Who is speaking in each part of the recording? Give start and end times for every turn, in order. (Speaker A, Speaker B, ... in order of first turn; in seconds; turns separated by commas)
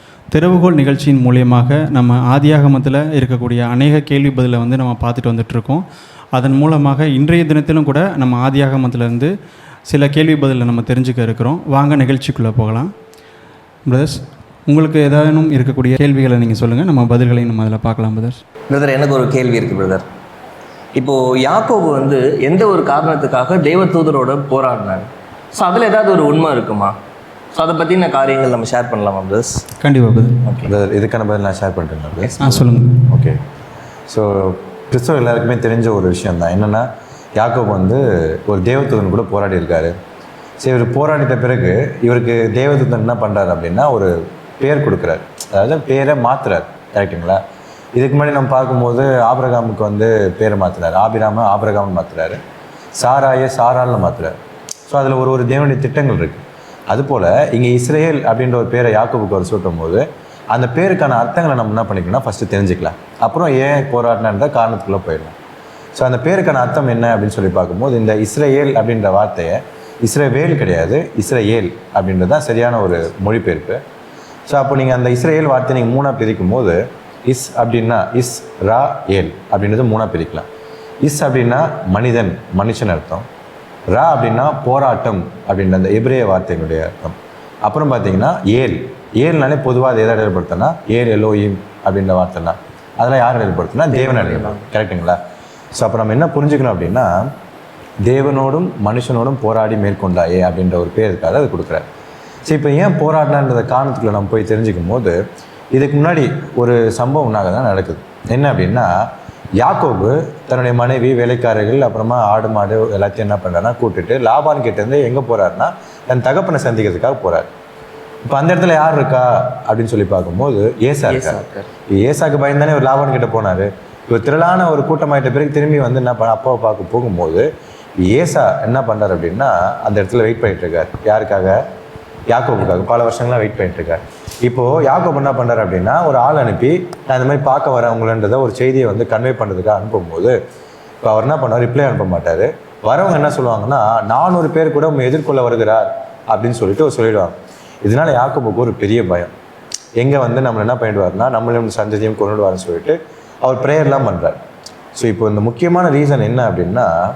Speaker A: 0.3-9.3, Speaker A: 9.9-12.9, Speaker A: 13.8-18.4, Speaker B: 18.7-20.0, Speaker B: 20.9-26.9, Speaker B: 27.5-29.6, Speaker A: 29.8-30.3, Speaker C: 30.7-32.3, Speaker B: 32.2-32.6, Speaker A: 32.4-33.1, Speaker C: 33.1-33.4, Speaker C: 34.1-39.9, Speaker C: 40.6-47.4, Speaker C: 47.9-52.4, Speaker C: 53.0-54.3, Speaker C: 54.9-65.3, Speaker C: 66.0-73.8, Speaker C: 74.5-80.5, Speaker C: 81.0-83.2, Speaker C: 83.9-95.2, Speaker B: 93.9-94.7, Speaker C: 95.7-97.3, Speaker C: 98.0-101.8, Speaker C: 102.4-105.2, Speaker C: 105.7-108.9, Speaker C: 109.6-117.5, Speaker C: 118.2-121.4, Speaker B: 121.0-121.7, Speaker C: 121.9-127.5, Speaker C: 128.0-131.6, Speaker C: 132.3-140.3, Speaker C: 141.0-149.3, Speaker C: 150.0-154.4, Speaker C: 154.9-156.9